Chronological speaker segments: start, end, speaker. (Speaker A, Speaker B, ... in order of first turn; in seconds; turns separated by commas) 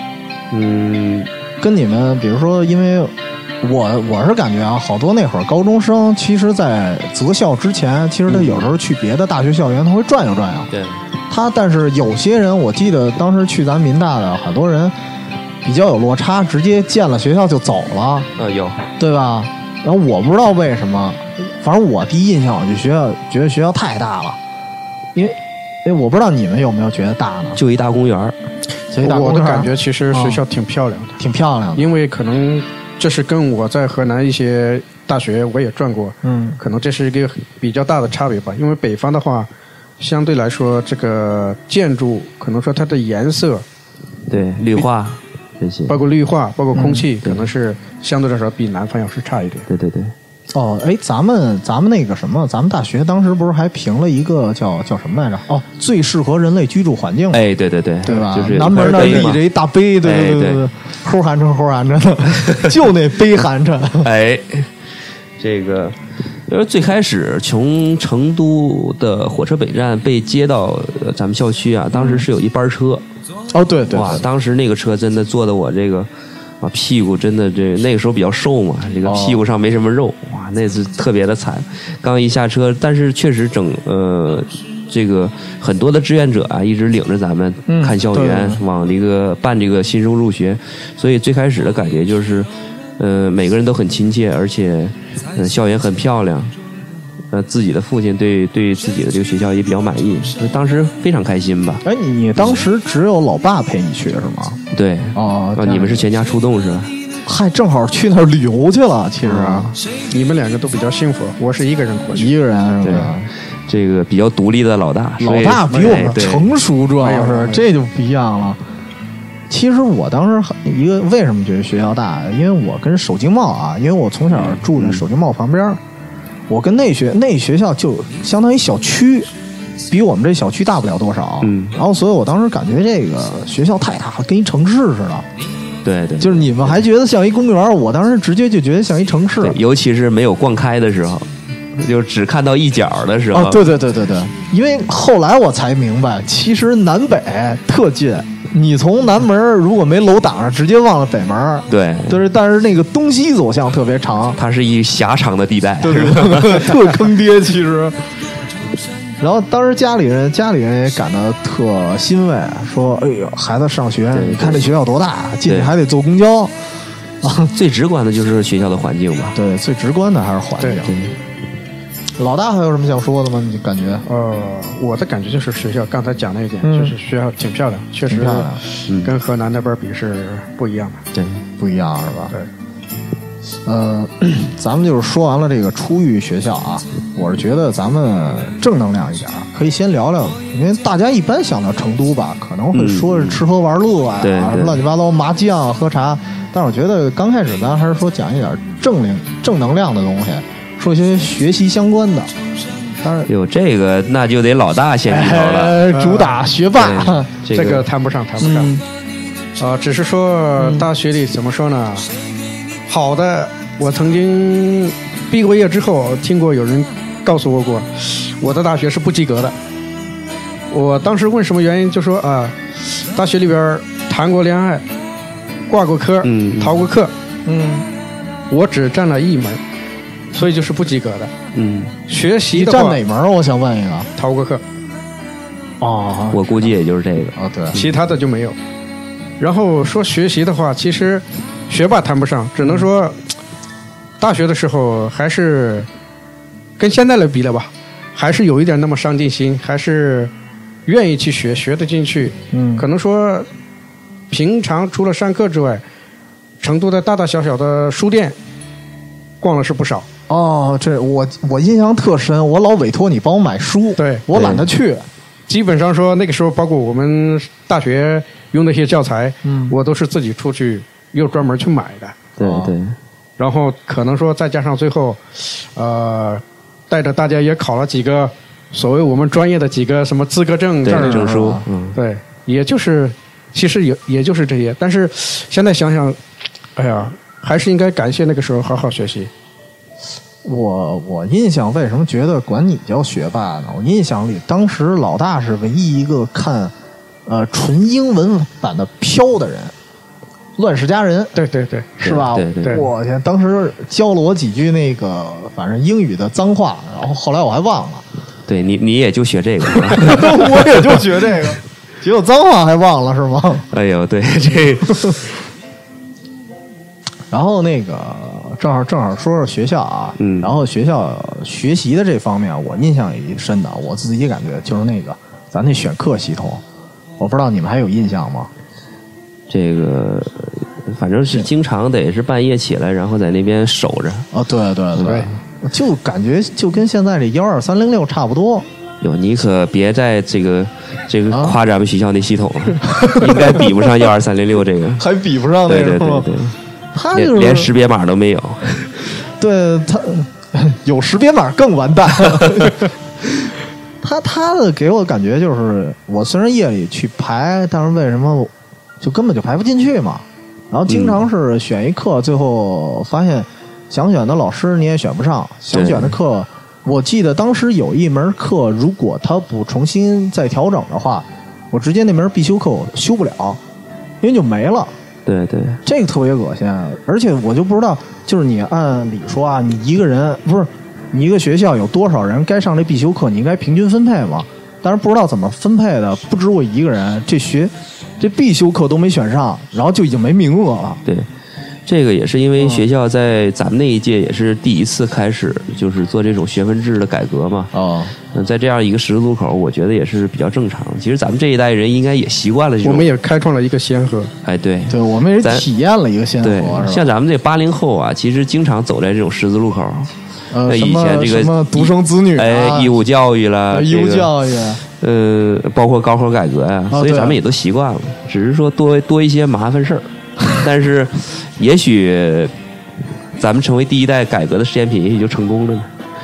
Speaker A: 0.5-1.3, Speaker B: 1.6-10.7, Speaker A: 8.3-8.7, Speaker A: 10.7-11.0, Speaker B: 11.3-14.9, Speaker B: 15.6-18.3, Speaker A: 18.4-18.9, Speaker B: 19.0-24.4, Speaker B: 25.1-27.6, Speaker A: 27.6-28.4, Speaker B: 28.9-30.4, Speaker C: 29.0-31.2, Speaker B: 31.2-31.9, Speaker C: 31.8-39.5, Speaker B: 36.2-36.6, Speaker C: 40.0-43.6, Speaker A: 44.3-46.0, Speaker C: 45.9-49.7, Speaker B: 46.8-47.1, Speaker A: 49.7-50.1, Speaker B: 50.5-57.4, Speaker A: 57.3-59.4, Speaker B: 58.0-64.1, Speaker C: 58.7-59.2, Speaker A: 60.0-60.6, Speaker A: 64.0-64.7, Speaker A: 65.4-73.0, Speaker B: 71.9-72.2, Speaker B: 73.5-74.2, Speaker A: 73.9-76.1, Speaker A: 76.6-96.5, Speaker B: 79.0-79.4, Speaker B: 87.7-88.6, Speaker A: 97.3-101.8, Speaker B: 101.8-104.6, Speaker A: 104.7-106.9, Speaker B: 105.2-106.1, Speaker B: 107.2-109.8, Speaker A: 109.2-109.7, Speaker C: 110.1-112.3, Speaker B: 112.1-113.3, Speaker A: 112.8-113.2, Speaker A: 113.7-116.5, Speaker B: 115.2-118.6, Speaker C: 115.7-116.0, Speaker C: 117.0-117.7, Speaker B: 119.5-125.8, Speaker A: 124.3-125.0, Speaker B: 126.5-129.3, Speaker B: 129.9-135.3, Speaker A: 131.4-131.8, Speaker A: 135.8-136.8, Speaker B: 136.2-139.6, Speaker A: 139.4-143.6, Speaker B: 143.3-154.4, Speaker A: 151.7-152.2, Speaker A: 154.4-156.9, Speaker B: 155.8-158.1, Speaker B: 159.2-166.5, Speaker A: 164.1-164.7, Speaker A: 165.5-165.7, Speaker B: 167.2-167.5, Speaker A: 167.5-169.4, Speaker B: 169.3-170.9, Speaker A: 170.9-171.2, Speaker B: 172.2-174.1, Speaker C: 174.1-181.0, Speaker B: 176.6-176.9, Speaker B: 178.1-178.6, Speaker A: 178.9-179.1, Speaker A: 181.1-181.4, Speaker B: 181.6-182.3, Speaker B: 183.7-202.3, Speaker A: 192.7-193.4, Speaker A: 194.2-194.8, Speaker B: 203.0-203.3, Speaker A: 203.3-205.8, Speaker B: 205.1-207.3, Speaker C: 205.9-206.4, Speaker A: 206.8-207.8, Speaker C: 207.5-208.8, Speaker B: 208.4-208.8, Speaker C: 209.6-212.1, Speaker B: 210.6-210.9, Speaker C: 212.9-219.6, Speaker C: 220.7-224.8, Speaker C: 225.7-227.1, Speaker A: 226.2-226.8, Speaker B: 227.5-227.9, Speaker C: 228.5-229.6, Speaker C: 230.3-231.3, Speaker A: 231.5-231.9, Speaker C: 232.1-233.0, Speaker B: 232.5-234.1, Speaker C: 234.2-234.6, Speaker B: 235.8-236.7, Speaker A: 236.3-237.9, Speaker B: 237.4-237.8, Speaker C: 237.8-238.6, Speaker C: 239.4-243.3, Speaker C: 244.2-245.9, Speaker C: 246.8-250.3, Speaker C: 250.9-253.5, Speaker B: 252.5-252.9, Speaker C: 254.3-255.8, Speaker C: 256.6-258.4, Speaker C: 259.4-260.1, Speaker B: 260.3-265.1, Speaker C: 264.0-264.2, Speaker A: 264.4-264.7, Speaker C: 265.5-272.2, Speaker B: 269.4-269.8, Speaker A: 272.4-273.0, Speaker B: 272.4-272.7, Speaker C: 273.4-281.4, Speaker A: 280.8-282.0, Speaker B: 280.9-281.7, Speaker C: 281.9-286.2, Speaker C: 286.8-289.3, Speaker B: 290.4-296.7, Speaker B: 297.3-299.7, Speaker B: 300.6-301.4, Speaker C: 301.4-301.9, Speaker B: 302.0-308.1, Speaker A: 302.0-302.8, Speaker A: 308.5-310.5, Speaker B: 309.9-313.7, Speaker A: 313.7-315.3, Speaker B: 317.3-326.6, Speaker A: 320.2-320.5, Speaker B: 327.2-328.5, Speaker A: 329.5-334.3, Speaker B: 334.3-338.7, Speaker A: 339.0-345.1, Speaker B: 341.3-341.6, Speaker B: 342.9-343.9, Speaker B: 345.0-346.3, Speaker A: 345.7-346.6, Speaker B: 346.9-347.7, Speaker A: 347.1-349.1, Speaker B: 349.4-352.9, Speaker B: 354.0-373.6, Speaker A: 360.9-361.2, Speaker A: 365.7-366.1, Speaker B: 374.2-374.9, Speaker A: 375.2-375.8, Speaker B: 375.8-391.0, Speaker A: 391.9-397.7, Speaker B: 392.6-392.9, Speaker B: 397.7-398.1, Speaker A: 398.3-403.1, Speaker C: 402.8-404.3, Speaker A: 404.4-405.7, Speaker B: 404.9-407.1, Speaker A: 406.4-410.1, Speaker B: 410.5-413.0, Speaker A: 410.7-414.3, Speaker B: 413.7-414.8, Speaker A: 415.0-422.5, Speaker B: 416.9-417.4, Speaker A: 423.4-425.9